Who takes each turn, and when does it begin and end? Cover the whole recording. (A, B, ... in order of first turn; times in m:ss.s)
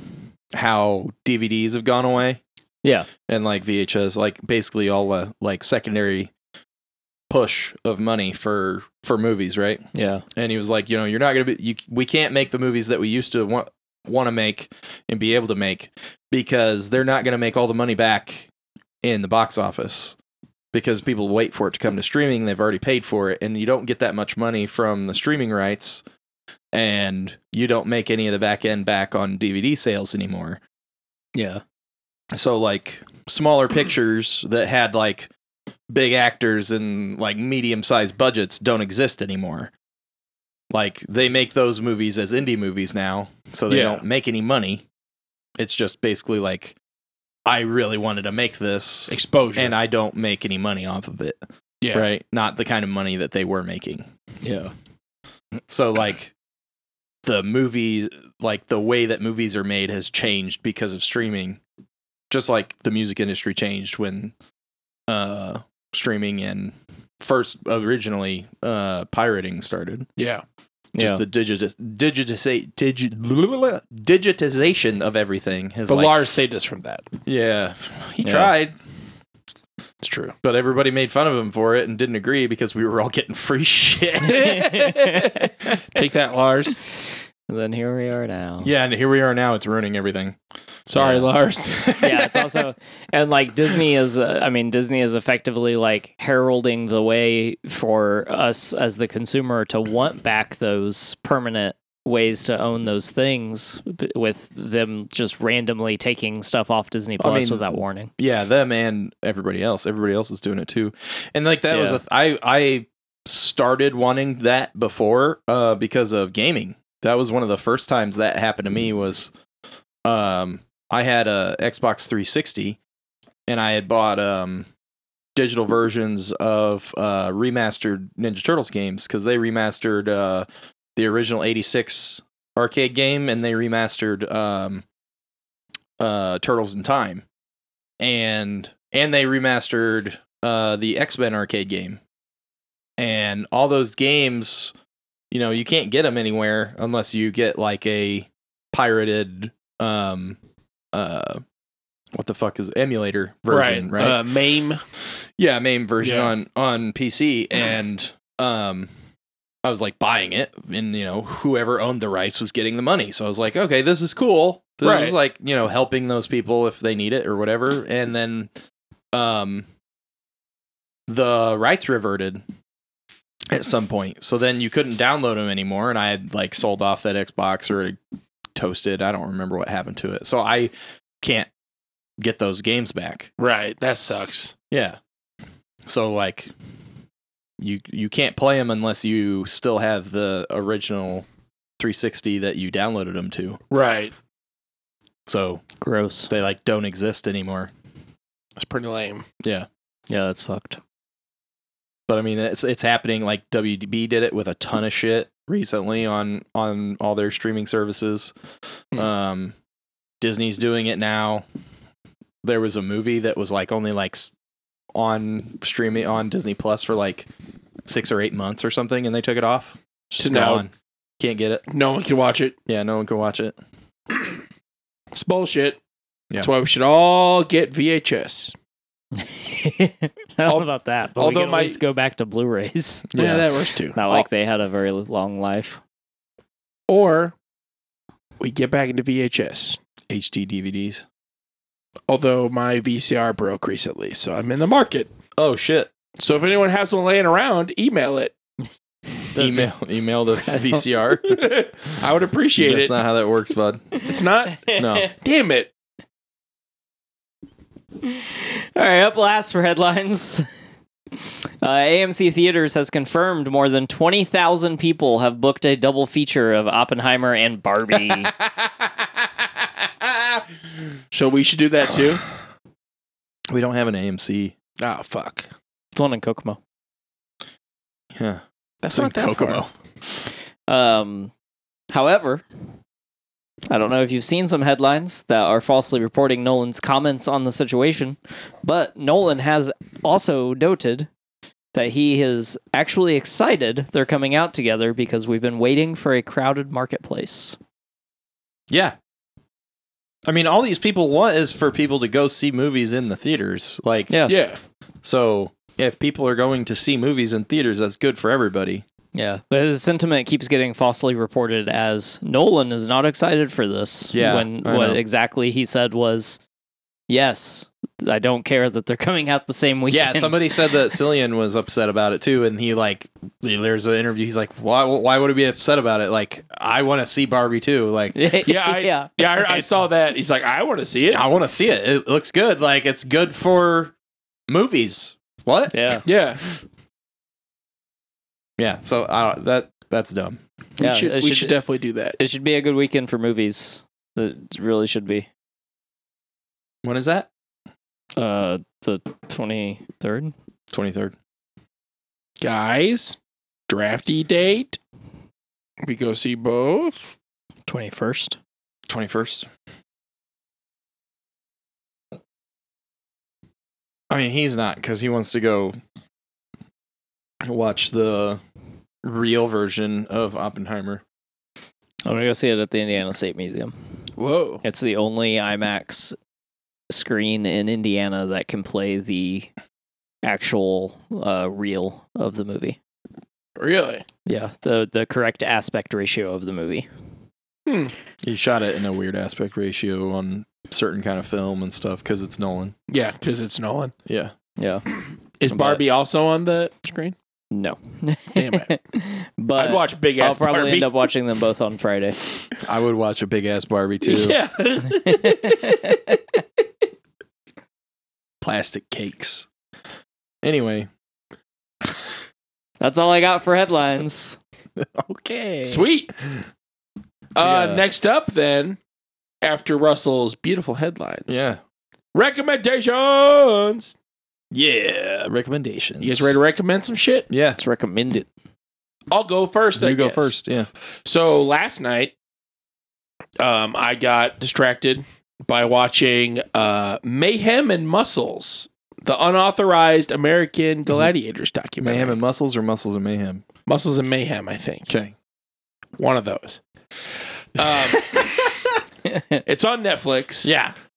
0:00.5-0:02.4 A
0:02.8-0:03.1 B
0:03.2-0:06.3 A
0:07.3-0:09.8 A
0:09.9-0:10.2 B
0:10.3-0:18.5 A
0:19.0-0:20.2 A
0:20.7-0:26.0 A
0:26.7-0:30.6 A
0:31.3-0:31.6 B
0:32.3-0:35.3 A
0:35.9-0:39.7 A
0:40.7-0:44.8 A
0:43.7-0:44.0 C
0:45.6-0:46.8 A
0:47.4-0:51.4 A
0:49.1-0:49.7 C
0:51.9-0:54.1 A
0:54.4-0:54.7 B
0:55.6-0:56.3 A
0:57.2-1:01.6 A
1:02.3-1:04.3 A
1:05.1-1:10.1 A
1:10.2-1:10.4 C
1:10.9-1:11.2 B
1:11.0-1:16.2 A
1:15.9-1:17.1 C
1:17.2-1:18.8 A
1:18.2-1:18.5 B
1:20.0-1:20.3 C
1:20.4-1:24.6 A
1:24.2-1:26.8 C
1:24.5-1:25.8 B
1:27.5-1:28.7 B
1:28.6-1:30.4 A
1:30.9-1:31.9 C
1:31.0-1:32.6 A
1:31.9-1:48.1 B
1:47.2-1:59.3 A
1:51.7-1:52.0 B
2:00.0-2:02.8 A
2:03.5-2:04.7 A
2:05.4-2:14.8 A
2:16.0-2:17.2 A
2:18.0-2:22.0 A
2:23.0-2:24.7 A
2:25.3-2:30.4 A
2:30.9-2:31.4 A
2:32.1-2:34.2 A
2:33.5-2:34.8 C
2:35.4-2:38.9 A
2:36.0-2:36.3 C
2:39.6-2:48.5 A
2:44.8-2:45.2 C
2:49.1-2:49.7 A
2:51.1-2:52.4 A
2:53.5-2:58.0 A
2:58.5-3:01.5 A
3:02.2-3:03.3 A
3:03.4-3:04.5 C
3:04.7-3:05.0 A
3:05.8-3:06.5 A
3:07.6-3:11.2 A
3:11.8-3:13.6 A
3:13.7-3:14.1 C
3:15.3-3:15.6 A
3:15.8-3:16.3 B
3:16.3-3:17.7 A
3:18.6-3:19.2 C
3:19.4-3:19.7 A
3:20.1-3:20.8 B
3:22.1-3:28.3 A
3:28.9-3:29.5 A
3:30.2-3:31.4 A
3:32.4-3:34.3 A
3:34.9-3:37.3 A
3:37.8-3:41.6 A
3:40.2-3:40.6 C
3:41.7-3:42.6 C
3:42.7-3:43.6 A
3:45.1-3:45.8 C
3:46.4-3:48.5 C
3:49.2-3:53.1 B
3:50.4-3:51.8 C
3:53.1-3:53.5 A
3:53.2-3:54.2 C
3:53.9-3:55.8 B
3:56.9-3:57.3 C
3:58.4-3:59.8 C
4:00.1-4:01.0 A
4:02.1-4:05.1 C
4:05.4-4:05.9 A
4:06.2-4:08.4 C
4:09.3-4:09.7 B
4:09.4-4:11.4 A
4:11.2-4:13.0 C
4:12.6-4:14.0 A
4:14.0-4:15.7 C
4:14.6-4:15.0 B
4:14.7-4:15.1 A
4:18.1-4:20.4 B
4:21.6-4:28.3 B
4:31.1-4:32.2 C
4:33.5-4:34.5 A
4:34.8-4:35.5 C
4:35.9-4:36.6 B
4:38.1-4:39.7 A
4:38.8-4:39.6 C
4:40.7-4:41.3 B
4:41.9-4:42.4 B
4:43.7-4:51.1 B
4:51.7-4:57.6 B
4:58.7-4:59.0 A
5:00.3-5:04.1 A
5:04.1-5:04.4 B
5:04.3-5:04.6 C
5:05.0-5:08.8 A
5:09.1-5:16.4 B
5:14.1-5:15.0 A
5:17.1-5:20.6 B
5:19.9-5:28.2 A
5:28.1-5:29.7 B
5:28.4-5:31.2 C
5:31.1-5:33.9 A
5:34.5-5:36.0 A
5:35.7-5:36.0 B
5:36.0-5:36.4 C
5:38.6-5:40.4 A
5:40.8-5:41.6 B
5:40.8-5:42.2 C
5:42.2-5:45.3 B
5:46.8-5:47.3 A
5:48.2-5:50.3 B
5:50.7-5:51.1 A
5:52.4-5:53.2 C
5:53.7-5:54.8 C
5:55.8-5:57.1 C
5:57.7-5:58.4 B
5:58.9-5:59.5 A
6:04.1-6:05.8 A
6:07.4-6:08.4 A
6:09.0-6:11.0 A
6:12.0-6:13.7 B
6:14.2-6:14.6 C
6:14.6-6:16.2 B
6:16.9-6:19.5 B
6:20.2-6:22.8 B
6:23.6-6:24.0 C
6:24.2-6:26.9 B
6:27.6-6:27.9 C
6:28.2-6:32.7 A
6:32.9-6:33.9 C
6:34.0-6:34.3 A
6:34.6-6:34.8 B
6:35.4-6:37.1 C
6:35.5-6:35.8 B
6:37.5-6:42.2 B
6:38.4-6:38.7 C
6:39.6-6:40.9 C
6:42.6-6:44.4 A
6:44.0-6:46.0 C
6:45.0-6:46.1 B
6:48.4-6:49.5 A
6:50.4-6:50.9 A
6:52.8-6:54.4 B
6:54.8-6:55.8 A
6:55.6-6:56.1 C
6:57.4-6:58.8 C
6:57.4-6:57.8 A
6:59.4-7:01.4 C
7:01.3-7:01.6 A
7:02.1-7:04.0 C
7:04.5-7:06.4 A
7:06.0-7:07.3 C
7:07.3-7:07.6 A
7:07.6-7:08.3 B
7:09.1-7:10.3 C
7:09.8-7:10.7 A
7:11.0-7:12.1 C
7:13.4-7:22.2 C
7:21.8-7:23.4 A
7:23.6-7:24.9 C
7:24.9-7:25.1 A
7:26.0-7:26.6 C
7:27.6-7:28.5 C
7:27.6-7:28.5 A
7:29.1-7:29.4 B
7:29.4-7:30.5 C
7:30.4-7:30.7 A